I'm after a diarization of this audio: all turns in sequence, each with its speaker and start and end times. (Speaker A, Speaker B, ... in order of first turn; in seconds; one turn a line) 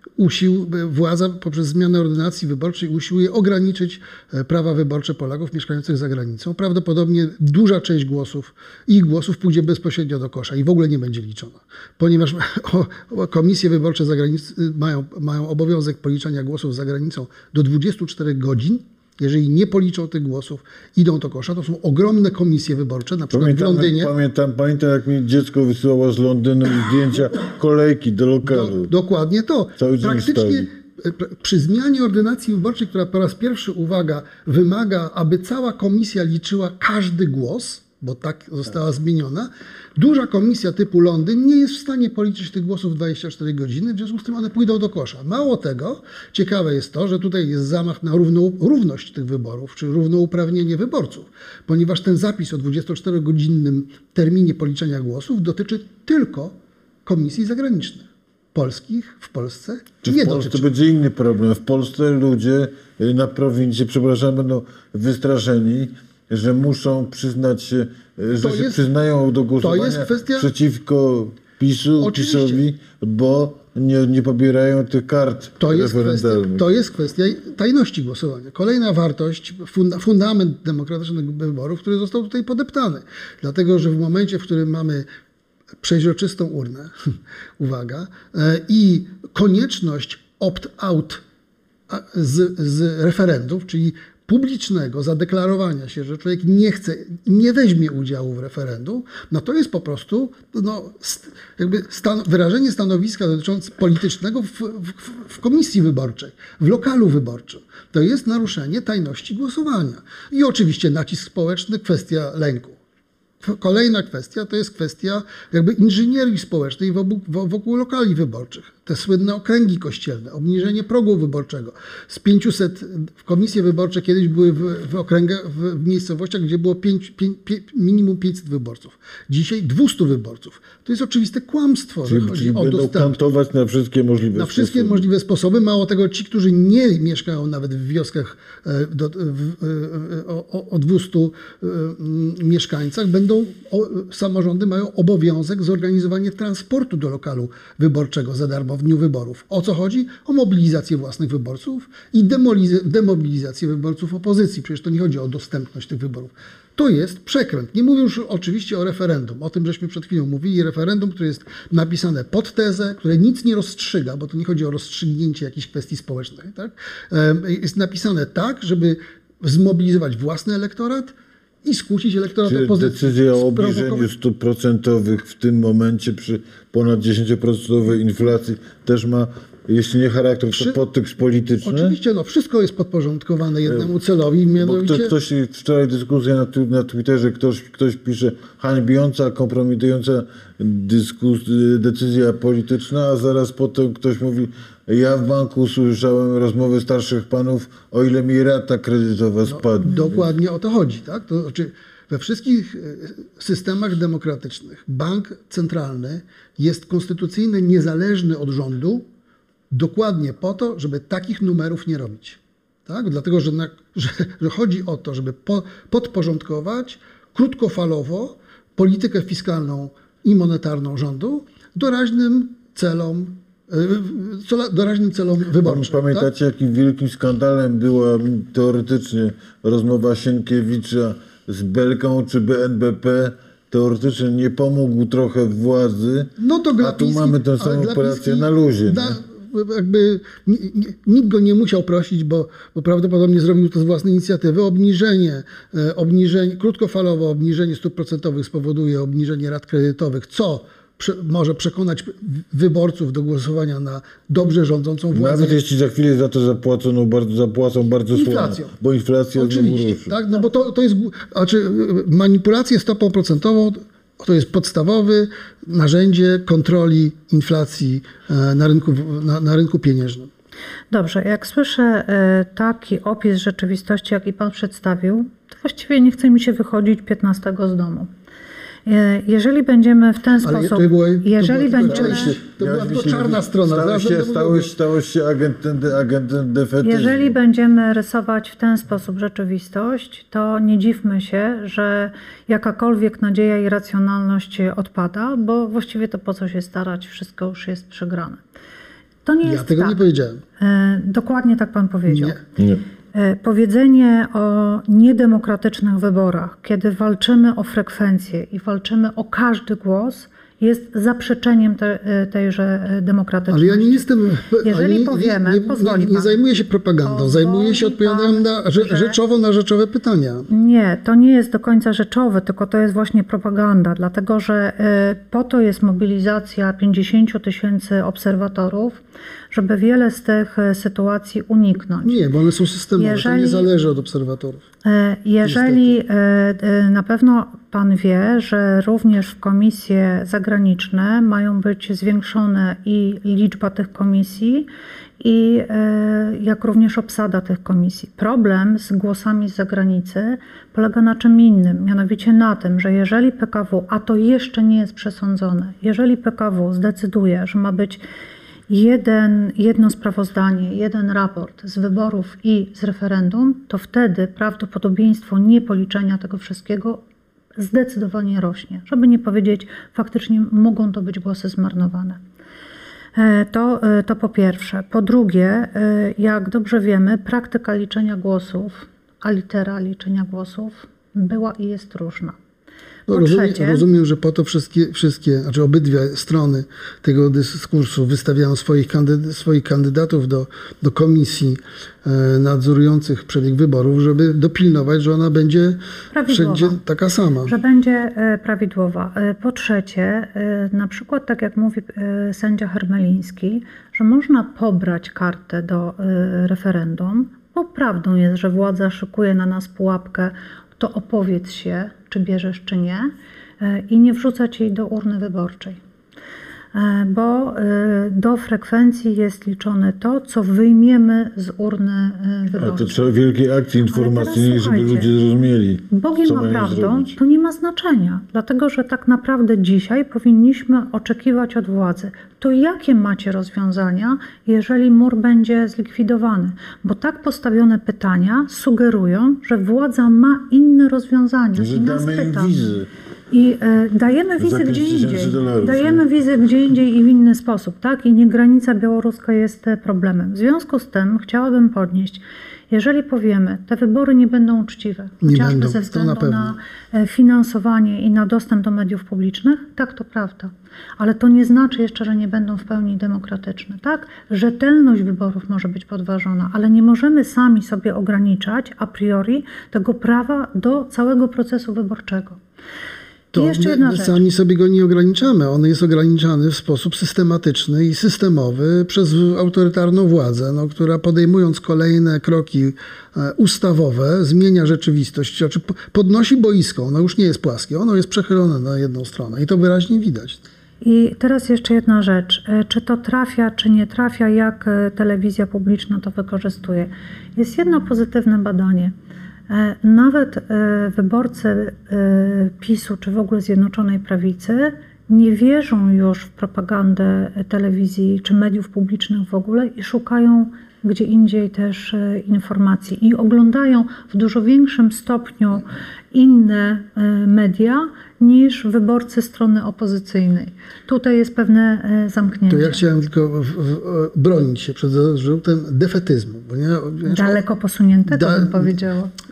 Speaker A: 0.2-24.1
Speaker B: 23.3-28.9
Speaker A: 28.4-56.5
Speaker B: 29.8-30.7
Speaker A: 57.1-60.7
Speaker B: 60.0-76.7
Speaker A: 68.4-68.8
Speaker A: 69.6-70.5
Speaker A: 72.0-72.6
Speaker A: 75.6-85.1
Speaker A: 85.8-91.2
Speaker A: 91.9-112.8
Speaker A: 113.4-133.2
Speaker B: 132.1-135.1
Speaker A: 134.3-174.1
Speaker B: 172.4-182.0
Speaker A: 180.5-180.8
Speaker A: 181.6-185.1
Speaker B: 184.6-200.2
Speaker A: 199.5-209.1
Speaker A: 209.7-226.3
Speaker B: 225.6-239.2
Speaker A: 236.4-255.6
Speaker B: 255.1-260.1
Speaker A: 258.1-258.7
Speaker A: 259.4-270.3
Speaker C: 270.9-278.1
Speaker C: 278.9-282.4
Speaker A: 280.4-284.7
Speaker B: 281.9-287.3
Speaker C: 286.8-298.4
Speaker C: 299.2-300.0
Speaker A: 299.4-300.4
Speaker C: 300.6-302.4
Speaker A: 302.1-302.4
Speaker C: 303.1-314.0
Speaker A: 313.5-320.5
Speaker C: 314.6-316.4
Speaker C: 317.0-319.2
Speaker C: 320.5-329.0
Speaker C: 329.5-332.2
Speaker A: 332.0-334.6
Speaker C: 333.0-333.7
Speaker C: 334.8-344.7
Speaker A: 335.4-335.9
Speaker C: 345.2-358.0
Speaker C: 358.7-367.0
Speaker C: 367.6-372.2
Speaker C: 373.1-382.4
Speaker A: 383.1-397.5
Speaker C: 383.1-383.9
Speaker C: 396.1-396.8
Speaker C: 397.5-415.8
Speaker C: 416.7-423.0
Speaker B: 422.6-427.2
Speaker C: 423.9-425.1
Speaker C: 425.9-442.5
Speaker B: 441.6-442.9
Speaker C: 443.3-472.4
Speaker B: 444.4-446.0
Speaker A: 455.2-456.6
Speaker A: 473.3-490.4
Speaker C: 473.4-474.2
Speaker C: 490.8-498.9
Speaker C: 499.5-522.8
Speaker A: 522.5-527.4
Speaker C: 527.1-529.1
Speaker A: 528.1-528.8